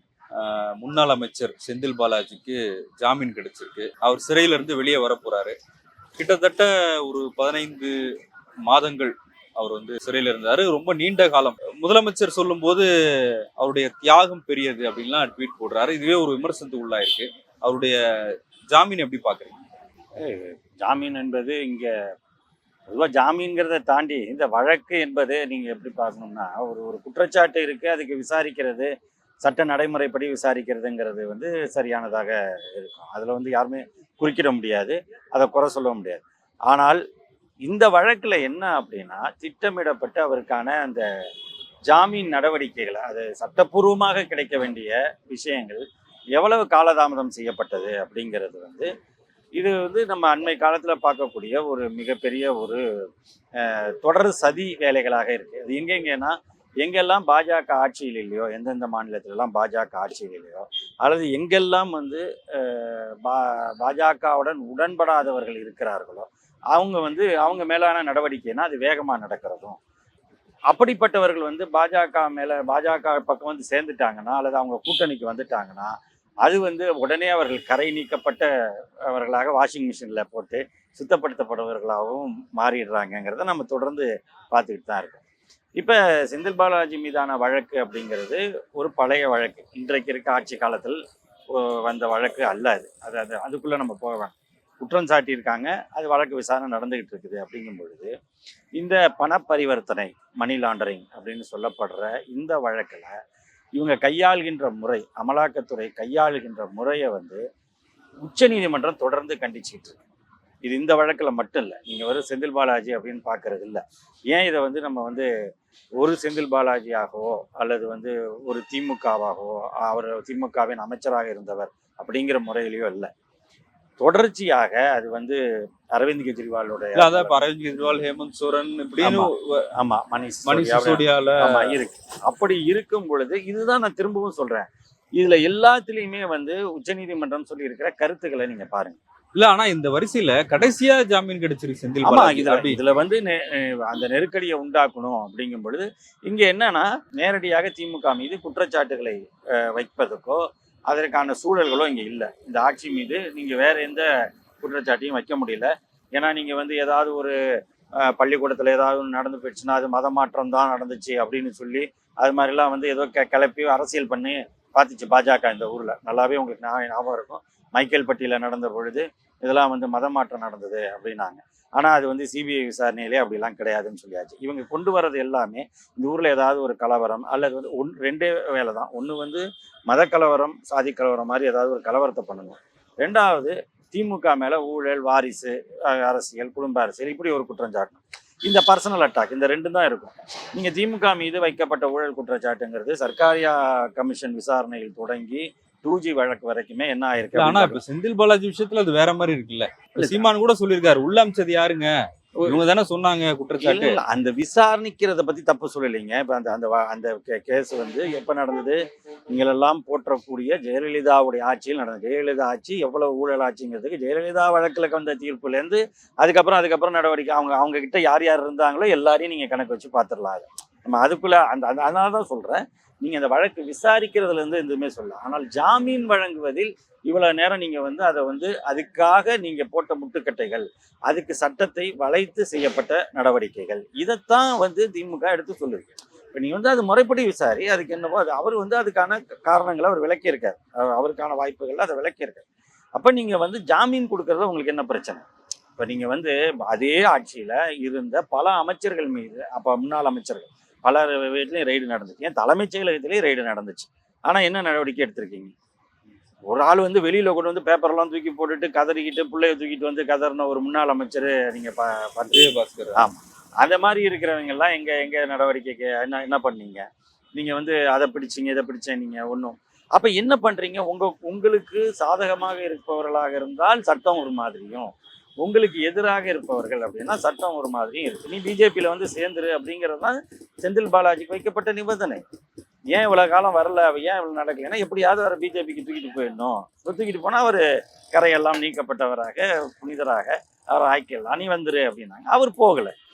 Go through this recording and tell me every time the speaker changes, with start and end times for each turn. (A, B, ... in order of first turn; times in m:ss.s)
0:00.4-0:05.6 A
0:06.2-0:07.9 A
0:08.7-0:12.9 A
0:13.6-0:19.6 A
0:20.2-0:21.9 B
0:22.9-0:28.9 B
0:29.4-0:37.0 B
0:37.6-0:41.0 B
0:41.9-0:45.8 B
0:46.4-0:48.9 B
0:49.6-0:52.8 B
0:53.6-1:09.8 B
1:10.7-1:15.9 B
1:16.4-1:18.5 B
1:19.1-1:25.2 B
1:25.8-1:31.0 B
1:31.5-1:38.1 B
1:38.8-1:43.1 B
1:43.8-1:47.4 B
1:48.2-1:50.0 B
1:50.6-1:55.3 B
1:56.0-2:03.1 B
2:04.0-2:05.4 B
2:06.0-2:07.4 B
2:07.0-2:09.7 A
2:09.0-2:19.0 B
2:10.5-2:11.8 A
2:19.4-2:22.8 A
2:22.0-2:34.1 B
2:34.6-2:37.4 B
2:38.0-3:17.8 B
3:17.4-3:21.9 A
3:20.0-3:20.3 B
3:22.4-3:24.0 A
3:23.6-3:28.8 B
3:29.3-4:05.2 B
4:05.8-4:15.5 B
4:16.5-4:26.8 B
4:22.3-4:23.0 A
4:27.4-4:34.9 B
4:35.4-4:42.2 B
4:42.9-4:52.9 B